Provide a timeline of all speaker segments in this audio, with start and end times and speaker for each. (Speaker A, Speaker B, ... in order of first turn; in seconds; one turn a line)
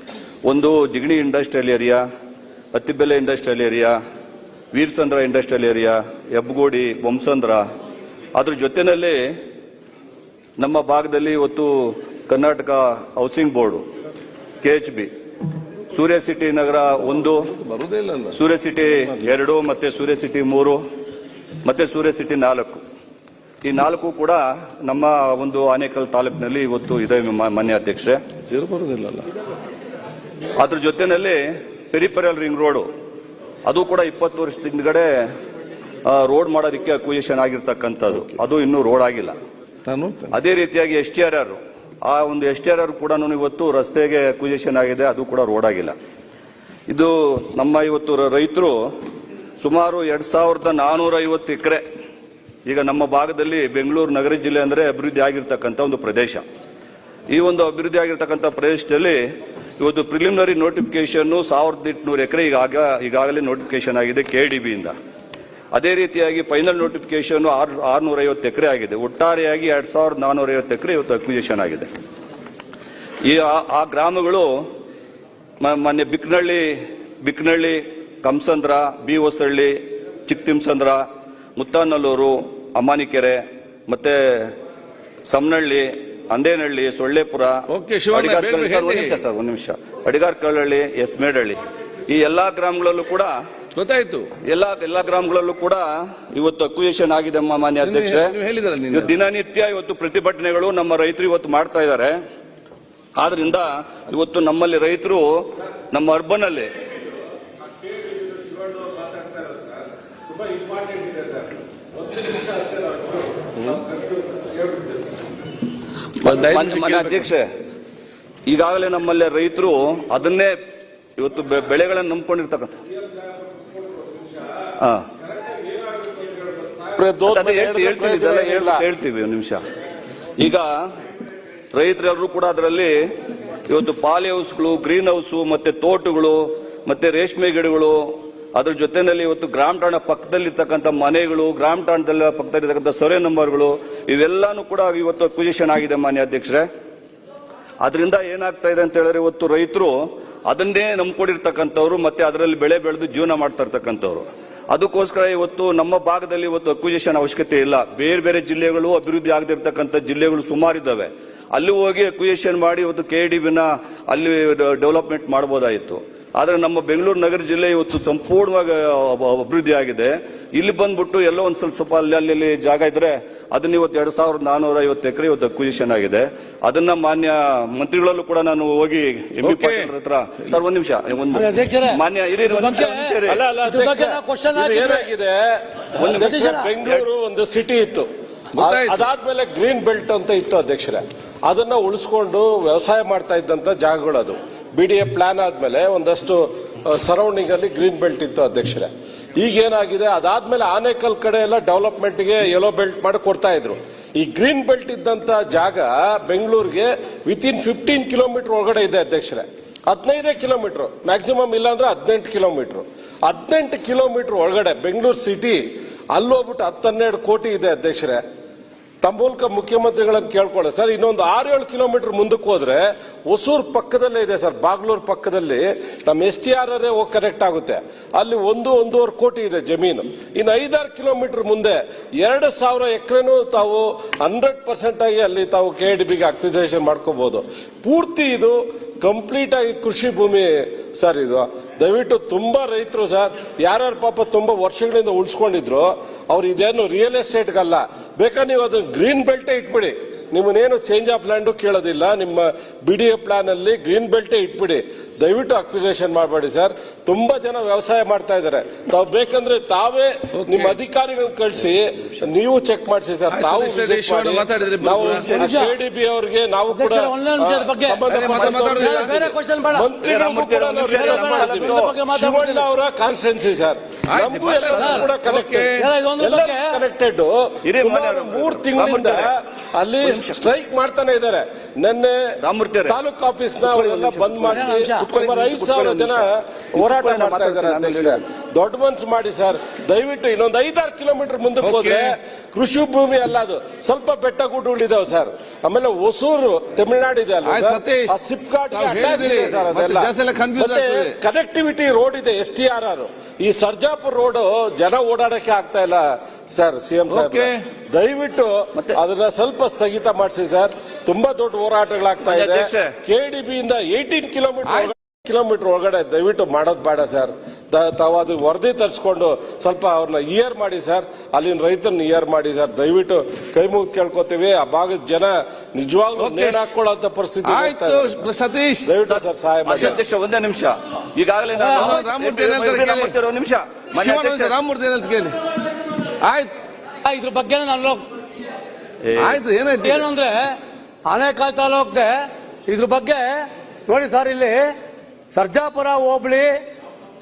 Speaker A: 0.5-2.0
Speaker A: 2.7-4.0
Speaker A: 4.7-7.7
Speaker A: 8.3-9.4
Speaker A: 10.6-13.8
Speaker A: 14.6-15.1
Speaker A: 15.9-17.4
Speaker B: 17.6-18.4
Speaker A: 18.4-20.8
Speaker A: 21.6-22.8
Speaker A: 23.6-28.2
Speaker B: 28.4-29.3
Speaker A: 30.6-32.9
Speaker A: 33.7-35.3
Speaker A: 36.0-39.4
Speaker B: 39.9-40.4
Speaker A: 40.3-46.0
Speaker A: 46.9-48.8
Speaker A: 49.6-51.8
Speaker A: 52.7-56.4
Speaker A: 57.3-59.2
Speaker A: 59.8-64.9
Speaker A: 65.7-71.9
Speaker A: 73.2-74.7
Speaker A: 75.6-84.5
Speaker A: 85.3-93.4
Speaker B: 87.7-89.2
Speaker B: 93.8-94.3
Speaker A: 94.4-98.3
Speaker B: 97.8-99.1
Speaker A: 98.9-102.2
Speaker A: 103.2-106.7
Speaker C: 108.1-109.6
Speaker C: 110.4-111.4
Speaker C: 112.1-113.2
Speaker C: 113.8-114.9
Speaker B: 116.2-117.3
Speaker A: 116.2-117.5
Speaker A: 118.5-120.5
Speaker A: 121.2-122.8
Speaker A: 124.8-125.0
Speaker C: 126.2-128.8
Speaker A: 127.3-129.6
Speaker A: 130.4-130.7
Speaker A: 131.7-133.1
Speaker A: 133.7-146.7
Speaker A: 147.8-183.4
Speaker B: 179.4-179.9
Speaker D: 181.3-185.1
Speaker C: 183.3-188.1
Speaker A: 185.9-187.1
Speaker D: 186.1-186.7
Speaker B: 188.5-189.1
Speaker C: 188.6-215.6
Speaker C: 216.1-218.2
Speaker C: 219.0-269.2
Speaker B: 260.3-260.8
Speaker B: 263.3-265.3
Speaker D: 265.2-265.8
Speaker D: 266.7-269.9
Speaker B: 268.1-269.4
Speaker C: 269.7-328.3
Speaker A: 270.0-272.0
Speaker D: 270.9-272.7
Speaker B: 274.1-275.9
Speaker D: 274.8-275.1
Speaker D: 275.8-276.8
Speaker A: 277.6-279.3
Speaker A: 280.0-280.4
Speaker A: 282.4-283.0
Speaker A: 283.6-288.2
Speaker D: 284.5-285.1
Speaker B: 291.6-292.2
Speaker B: 297.4-301.2
Speaker B: 307.1-307.7
Speaker A: 312.2-312.9
Speaker B: 314.6-314.9
Speaker B: 326.2-326.7
Speaker B: 327.4-328.9
Speaker C: 328.8-330.0
Speaker A: 329.0-334.5
Speaker D: 331.6-331.9
Speaker B: 331.6-333.1
Speaker B: 334.0-335.4
Speaker B: 336.2-336.5
Speaker D: 337.1-338.1
Speaker A: 339.1-339.3
Speaker B: 339.2-340.1
Speaker D: 339.8-340.6
Speaker D: 341.1-344.7
Speaker D: 345.3-346.6